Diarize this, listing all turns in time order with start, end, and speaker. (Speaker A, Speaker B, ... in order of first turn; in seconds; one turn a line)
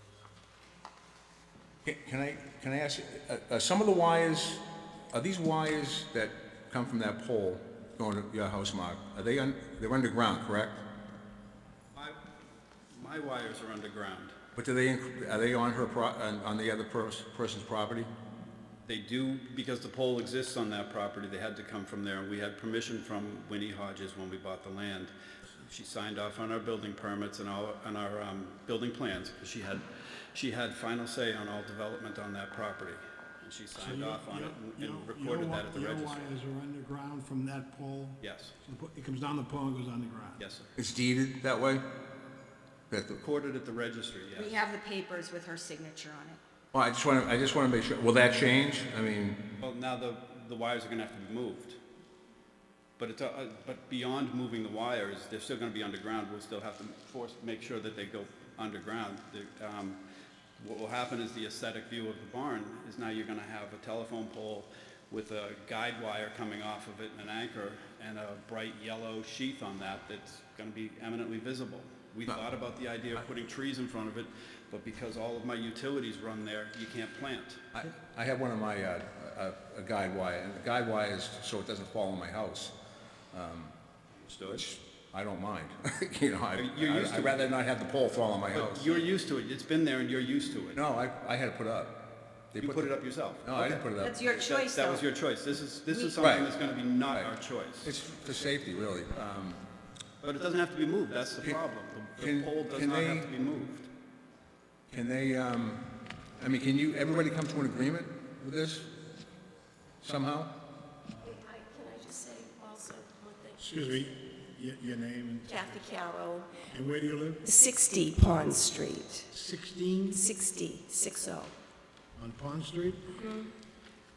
Speaker A: 1.8-10.8
Speaker B: 12.9-14.3
Speaker A: 14.5-18.1
Speaker B: 18.9-25.1
Speaker B: 25.6-36.2
Speaker C: 33.7-40.4
Speaker B: 38.2-38.5
Speaker B: 40.4-40.7
Speaker A: 40.8-41.9
Speaker A: 42.9-43.2
Speaker B: 43.2-44.5
Speaker D: 44.3-46.4
Speaker A: 46.7-49.4
Speaker B: 49.6-51.8
Speaker B: 53.0-60.0
Speaker B: 60.6-77.7
Speaker A: 77.7-82.7
Speaker A: 83.3-83.7
Speaker B: 84.2-84.7
Speaker A: 84.5-89.0
Speaker B: 86.5-87.5
Speaker B: 88.5-90.8
Speaker A: 90.7-94.2
Speaker B: 92.6-97.9
Speaker D: 94.0-95.0
Speaker D: 95.9-96.2
Speaker A: 96.2-96.5
Speaker A: 97.8-99.6
Speaker B: 100.2-103.9
Speaker A: 102.1-103.3
Speaker A: 104.9-108.9
Speaker A: 110.0-110.5
Speaker E: 111.2-113.9
Speaker C: 113.6-115.7
Speaker E: 115.5-116.5
Speaker C: 116.7-117.4
Speaker E: 117.4-119.3
Speaker C: 119.3-120.2
Speaker E: 120.1-121.5
Speaker C: 122.2-123.2
Speaker E: 123.2-123.5